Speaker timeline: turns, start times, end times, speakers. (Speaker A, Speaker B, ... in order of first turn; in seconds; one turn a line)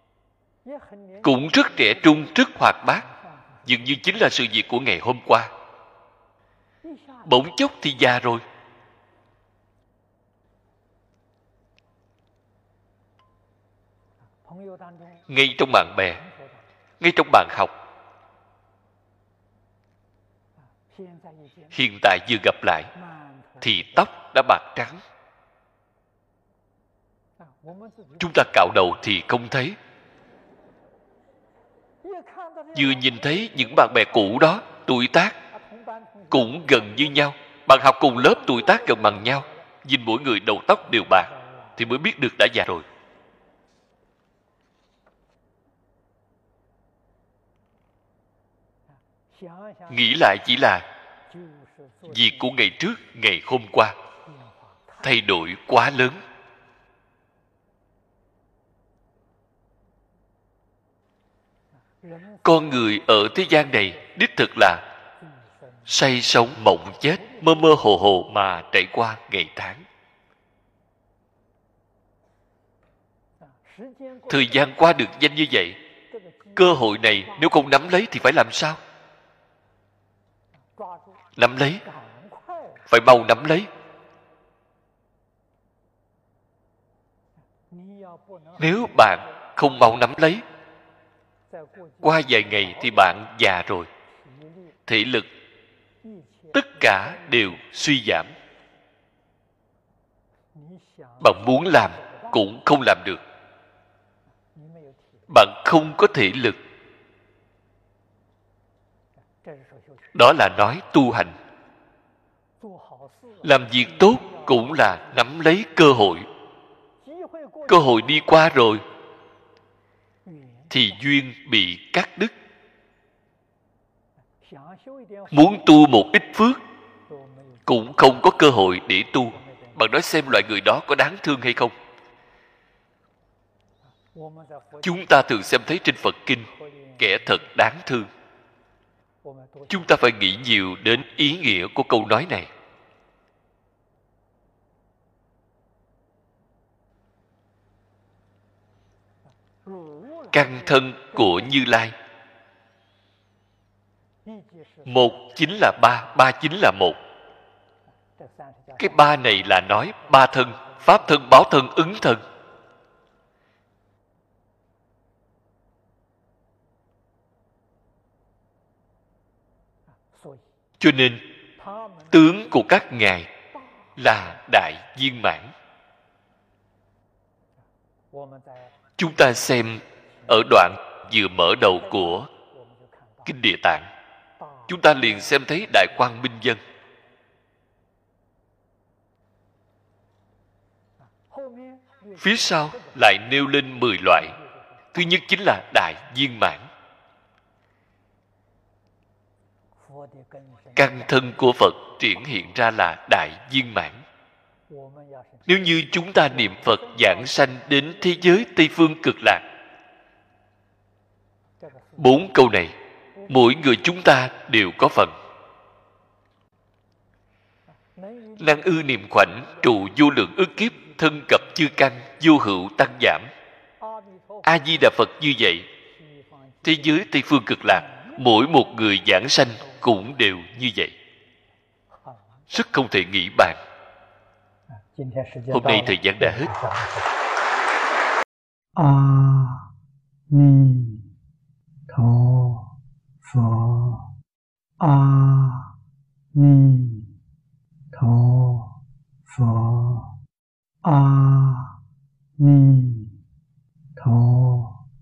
Speaker A: 0.6-4.0
Speaker B: 1.2-3.0
Speaker B: 3.6-5.5
Speaker A: 6.8-7.5
Speaker B: 7.2-8.4
Speaker A: 14.4-16.7
Speaker B: 15.3-16.2
Speaker B: 17.0-17.7
Speaker A: 20.6-21.8
Speaker B: 21.7-22.9
Speaker A: 22.9-24.1
Speaker B: 23.6-25.0
Speaker A: 27.4-28.9
Speaker B: 28.2-29.8
Speaker A: 32.0-34.6
Speaker B: 32.7-35.4
Speaker A: 35.5-37.3
Speaker B: 36.3-42.9
Speaker A: 38.1-39.7
Speaker A: 40.8-41.9
Speaker A: 48.9-50.1
Speaker B: 49.9-50.9
Speaker A: 51.3-52.5
Speaker B: 52.1-54.0
Speaker A: 54.2-55.2
Speaker B: 55.0-56.2
Speaker A: 62.0-64.2
Speaker B: 62.4-64.8
Speaker A: 65.2-66.0
Speaker B: 65.9-69.8
Speaker A: 66.9-68.1
Speaker A: 73.4-74.9
Speaker B: 74.3-75.8
Speaker A: 76.1-77.6
Speaker B: 76.5-78.8
Speaker A: 80.6-81.2
Speaker B: 81.4-81.8
Speaker A: 81.8-82.9
Speaker B: 82.9-83.7
Speaker A: 87.7-89.5
Speaker B: 88.6-90.4
Speaker A: 91.5-93.2
Speaker B: 92.0-93.9
Speaker A: 94.1-94.8
Speaker B: 94.9-95.3
Speaker A: 96.0-97.6
Speaker B: 96.5-98.3
Speaker A: 100.5-102.5
Speaker B: 101.2-103.2
Speaker A: 104.5-105.3
Speaker B: 105.3-106.6
Speaker A: 109.3-110.1
Speaker B: 110.1-111.4
Speaker A: 112.6-115.3
Speaker B: 113.4-116.3
Speaker A: 117.0-118.2
Speaker B: 117.7-118.8
Speaker A: 120.2-121.0
Speaker B: 120.7-122.3
Speaker A: 124.4-126.0
Speaker B: 125.3-126.6
Speaker A: 127.1-128.0
Speaker B: 127.7-131.8
Speaker A: 129.3-129.8
Speaker A: 134.0-135.4
Speaker B: 134.8-138.1
Speaker A: 136.4-137.4
Speaker A: 139.2-140.2
Speaker B: 139.7-142.5
Speaker A: 149.6-151.6
Speaker B: 150.3-151.9
Speaker A: 154.2-155.2
Speaker B: 154.9-157.0
Speaker A: 157.9-159.4
Speaker B: 158.8-162.2
Speaker A: 160.0-161.2
Speaker A: 169.9-170.5
Speaker B: 170.8-171.2
Speaker A: 171.6-172.5
Speaker B: 172.1-173.3
Speaker A: 173.6-174.0
Speaker B: 174.0-175.5
Speaker A: 178.1-178.8
Speaker B: 179.0-182.3
Speaker A: 181.6-183.3
Speaker B: 183.2-183.9
Speaker A: 184.4-186.0
Speaker B: 184.7-186.6
Speaker A: 191.0-193.5
Speaker B: 192.2-194.3
Speaker A: 194.1-195.0
Speaker B: 194.9-196.7
Speaker A: 199.8-201.4
Speaker B: 200.8-204.0
Speaker A: 204.7-208.5
Speaker B: 205.5-209.4
Speaker A: 211.6-212.2
Speaker B: 212.0-212.8
Speaker A: 213.2-213.8
Speaker B: 213.3-215.2
Speaker A: 217.7-221.5
Speaker B: 218.4-223.3
Speaker A: 223.8-225.1
Speaker B: 224.4-225.7
Speaker A: 225.7-227.1
Speaker B: 226.6-230.9
Speaker A: 227.6-230.1
Speaker A: 231.9-232.6
Speaker B: 232.5-233.6
Speaker A: 234.7-237.1
Speaker B: 235.5-236.5
Speaker A: 238.8-239.6
Speaker A: 240.3-241.0
Speaker A: 241.9-242.7
Speaker A: 243.2-244.0
Speaker A: 244.8-245.7
Speaker A: 246.3-247.1
Speaker A: 247.9-248.7
Speaker A: 249.3-250.1
Speaker A: 250.8-251.7
Speaker A: 252.4-253.1
Speaker A: 254.0-254.8